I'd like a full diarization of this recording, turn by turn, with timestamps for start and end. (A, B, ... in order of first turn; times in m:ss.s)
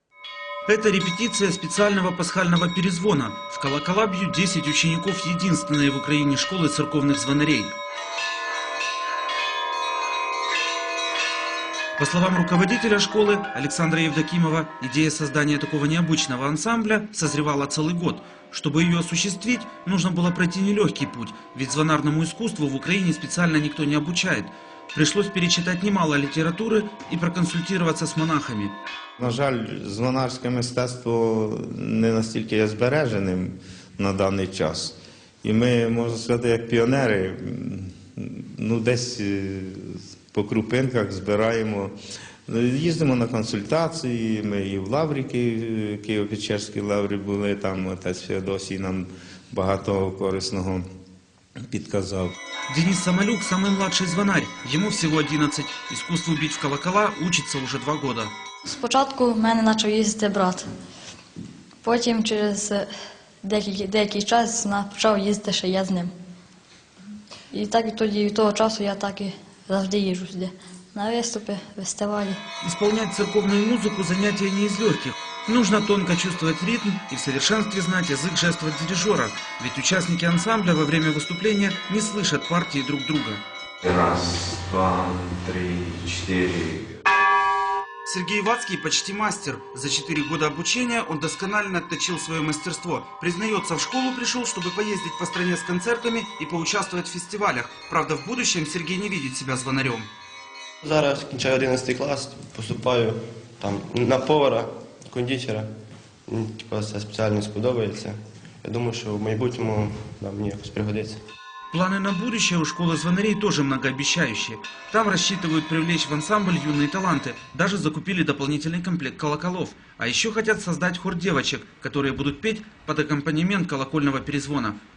0:00.6-0:07.8 A
0:12.0-0:28.8 A
0:29.2-0:41.9 B
0:42.5-0:50.8 B
0:51.7-0:52.3 B
0:52.7-0:58.3 A
0:58.6-1:00.6 C
1:01.8-1:02.9 C
1:03.4-1:06.1 C
1:07.5-1:12.4 C
1:12.6-1:23.4 A
1:23.8-1:27.0 B
1:28.0-1:40.1 A
1:40.8-1:45.7 D
1:46.3-1:51.2 D
1:51.7-2:04.8 A